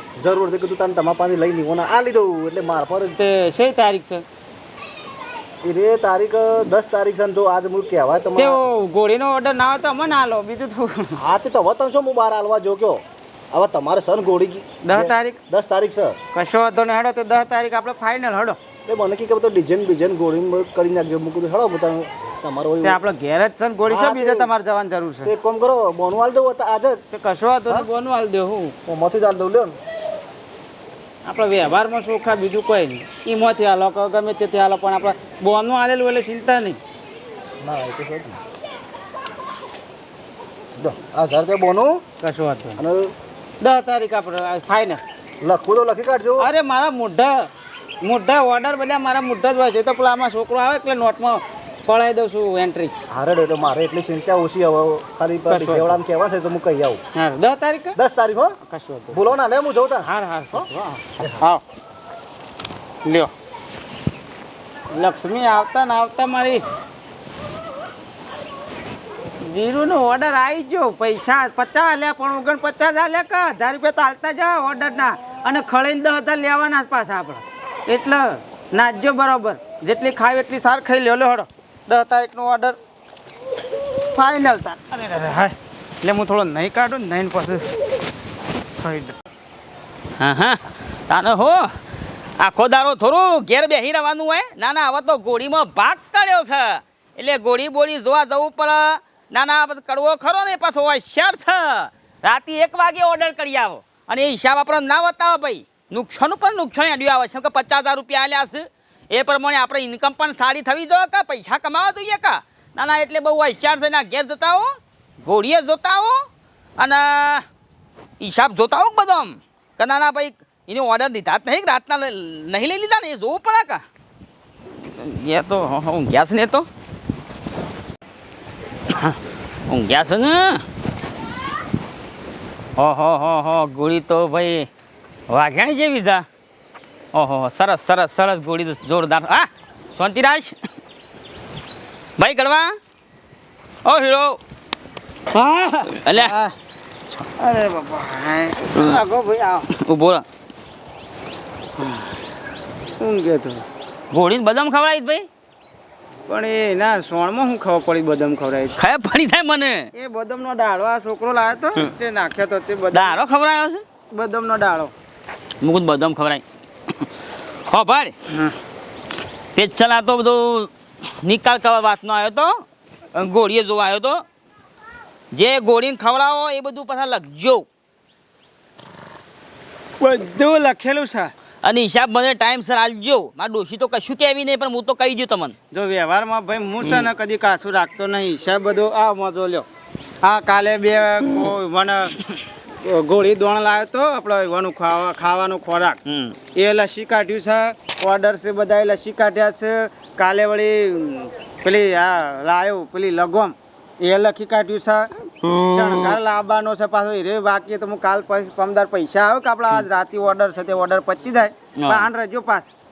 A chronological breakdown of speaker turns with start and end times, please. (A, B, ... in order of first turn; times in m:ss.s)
0:00.2-0:03.2 A
0:03.2-0:04.2 B
0:05.6-0:08.6 A
0:08.4-0:11.2 B
0:11.2-0:16.2 A
0:14.8-0:15.4 B
0:16.3-0:18.6 B
0:18.8-0:23.0 A
0:22.8-0:25.3 B
0:23.8-0:24.5 A
0:25.2-0:27.0 A
0:27.1-0:28.7 B
0:28.8-0:29.8 A
0:31.2-0:36.8 B
0:37.6-0:38.4 A
0:40.8-0:42.0 A
0:42.2-0:42.8 B
0:42.8-0:43.1 A
0:43.6-0:45.0 B
0:45.4-0:46.5 A
0:46.4-0:47.5 B
0:48.0-0:52.9 B
0:53.1-0:57.0 A
0:55.5-0:56.0 B
0:57.1-0:58.0 B
0:58.0-0:58.6 A
0:58.6-0:59.2 B
0:59.1-1:00.6 A
1:00.0-1:01.6 B
1:01.2-1:01.4 A
1:03.0-1:03.3 B
1:04.9-1:06.6 B
1:09.4-1:22.8 B
1:24.1-1:27.6 B
1:28.8-1:29.1 B
1:30.2-1:31.8 C
1:32.4-1:54.7 C
1:55.2-1:56.2 C
1:56.8-1:57.4 C
1:58.2-2:03.8 C
2:04.9-2:06.7 C
2:08.9-2:09.2 C
2:09.7-2:10.6 C
2:12.8-2:14.7 C
2:15.3-2:16.2 C
2:17.1-2:20.5 C
2:22.2-2:22.8 C
2:23.8-2:24.4 C
2:25.3-2:26.5 B
2:26.0-2:26.4 C
2:27.3-2:29.7 B
2:29.7-2:30.2 C
2:31.8-2:32.0 B
2:33.0-2:33.6 B
2:34.1-2:35.3 C
2:36.3-2:38.7 B
2:38.8-2:39.9 C
2:39.9-2:43.2 B
2:42.9-2:43.8 C
2:44.1-2:44.9 B
2:45.6-2:46.4 C
2:47.7-2:48.1 C
2:49.5-2:50.7 C
2:51.2-2:52.6 C
2:53.1-2:54.2 C
2:55.3-2:57.6 C
3:00.0-3:01.3 B
3:01.6-3:05.5 C
3:05.7-3:09.6 B
3:10.2-3:12.1 B
3:12.8-3:16.0 B
3:16.1-3:16.3 C
3:16.5-3:25.1 B
3:25.4-3:26.2 C
3:25.7-3:32.6 B
3:31.8-3:32.1 C